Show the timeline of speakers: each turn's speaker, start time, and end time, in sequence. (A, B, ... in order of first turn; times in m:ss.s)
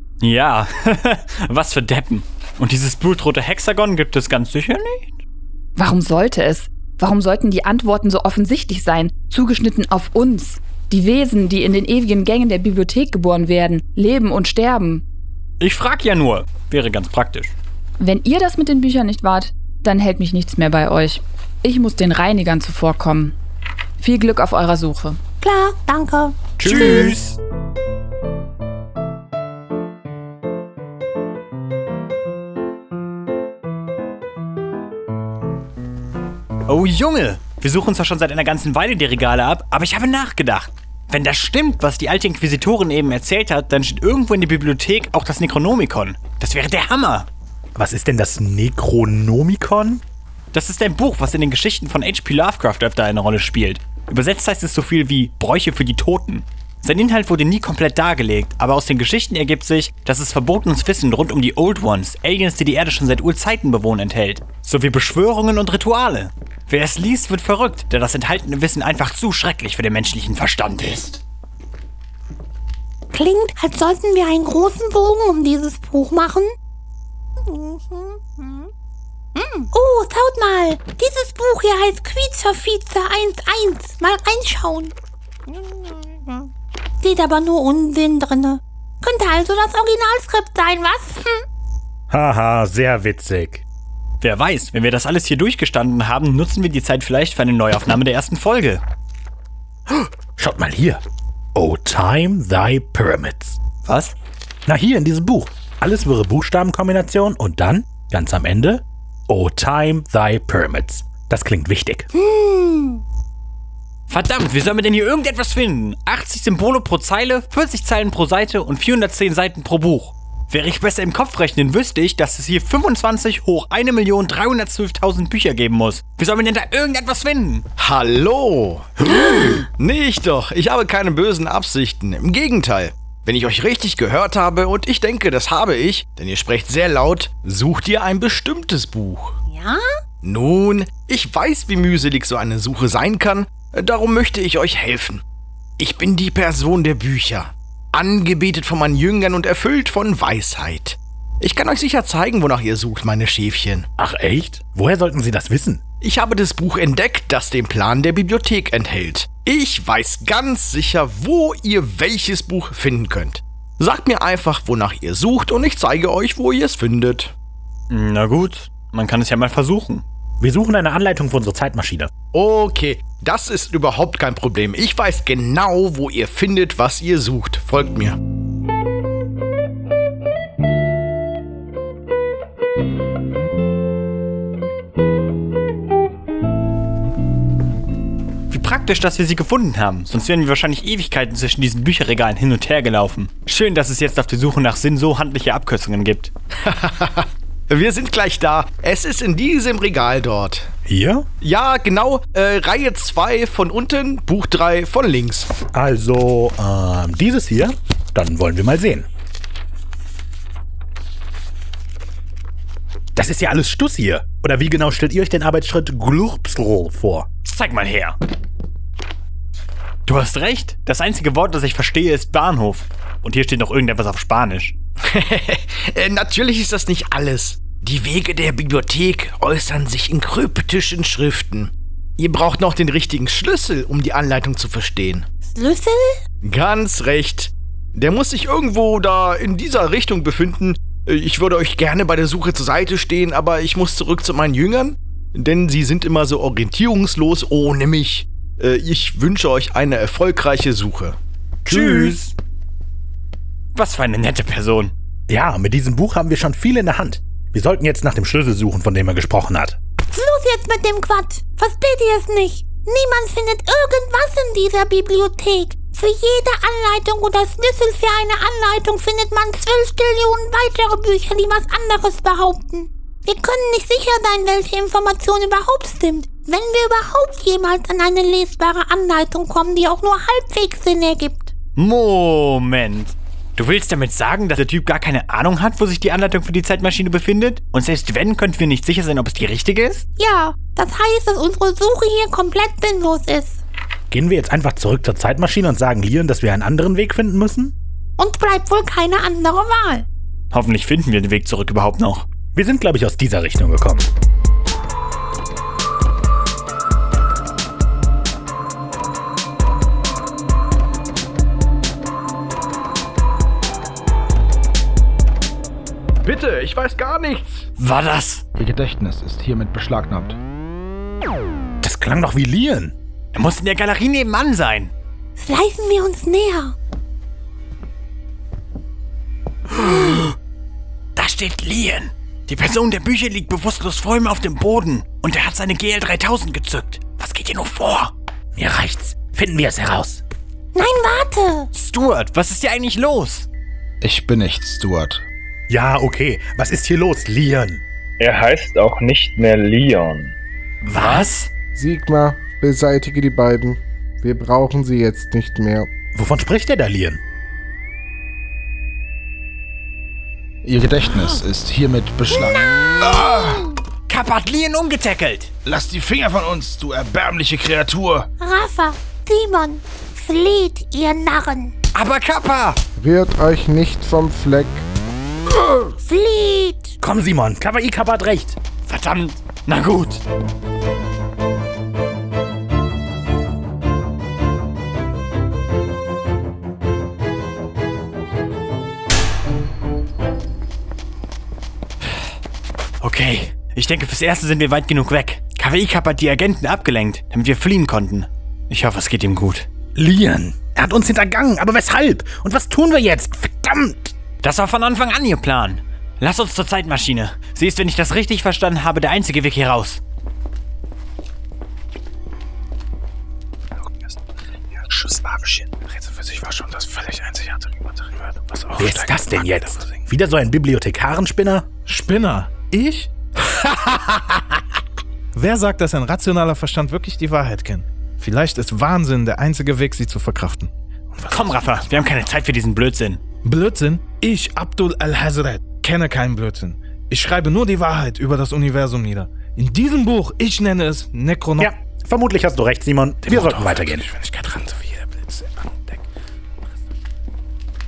0:00.2-0:05.2 A
0:05.8-0:15.0 B
0:15.6-0:17.5 A
0:18.0-0:23.4 B
0:24.0-0:25.2 B
0:25.4-0:27.2 C
0:26.6-0:27.4 A
0:36.7-0:47.3 A
0:47.8-0:50.0 D
0:50.5-1:11.2 A
1:13.1-1:16.5 C
1:17.4-1:18.7 C
1:19.4-1:24.9 C
1:25.5-1:31.4 C
1:32.1-1:33.6 D
1:34.2-1:38.8 A
1:39.9-1:41.0 D
1:41.6-1:43.6 D
1:43.8-1:44.2 A
1:44.7-1:52.1 D
1:52.2-1:53.0 C
1:54.1-2:07.6 A
2:07.8-2:19.4 E
2:19.5-2:19.8 C
2:20.2-2:25.2 E
2:25.8-2:33.9 E
2:34.0-2:35.8 D
2:36.0-2:47.3 E
2:47.9-2:50.0 A
2:50.4-2:52.1 D
2:52.3-2:58.2 E
3:08.5-3:16.3 A
3:16.6-3:20.7 E
3:20.9-3:21.3 D
3:21.4-3:25.5 E
3:25.7-3:29.1 D
3:33.2-3:37.3 D
3:37.4-3:38.2 A
3:40.1-3:44.8 A
3:45.1-3:55.3 E
3:55.4-3:56.2 C
3:56.4-4:11.2 E
4:11.6-4:12.3 A
4:11.7-4:12.2 D
4:13.8-4:14.9 A
4:15.3-4:19.8 D
4:20.1-4:41.5 C
4:41.8-4:50.1 A
4:50.2-4:53.6 C
4:54.1-4:57.8 D
4:58.2-5:00.1 C
5:00.5-5:02.3 A
5:02.5-5:04.1 D
5:16.2-5:17.7 E
5:17.8-5:18.4 A
5:18.6-5:20.4 F
5:21.8-5:22.9 D
5:23.3-5:24.9 A
5:25.4-5:26.8 C
5:29.8-5:30.4 A
5:31.2-5:38.1 A
5:38.6-5:40.2 D
5:40.7-5:41.7 C
5:41.7-5:43.5 A
5:44.0-5:45.2 F
5:45.7-5:47.8 D
5:48.2-5:50.4 G
5:50.8-5:51.5 A
5:50.9-5:51.2 D
5:51.7-5:55.9 H
5:56.1-5:57.2 D
6:00.6-6:03.7 F
6:04.1-6:05.5 A
6:05.6-6:08.3 F
6:08.4-6:11.7 C
6:11.9-6:12.8 A
6:13.0-6:14.9 H
6:16.0-6:17.0 C
6:17.0-6:18.6 D
6:18.9-6:20.2 A
6:33.0-6:39.7 A
6:40.0-6:44.1 D
6:44.4-6:50.0 A
6:54.9-6:55.6 A
6:55.9-6:59.8 I
6:58.8-7:01.7 D
7:01.9-7:03.1 I
7:05.4-7:11.7 I
7:11.3-7:13.2 A
7:13.4-7:21.7 I
7:21.6-7:24.1 D
7:23.2-7:26.1 I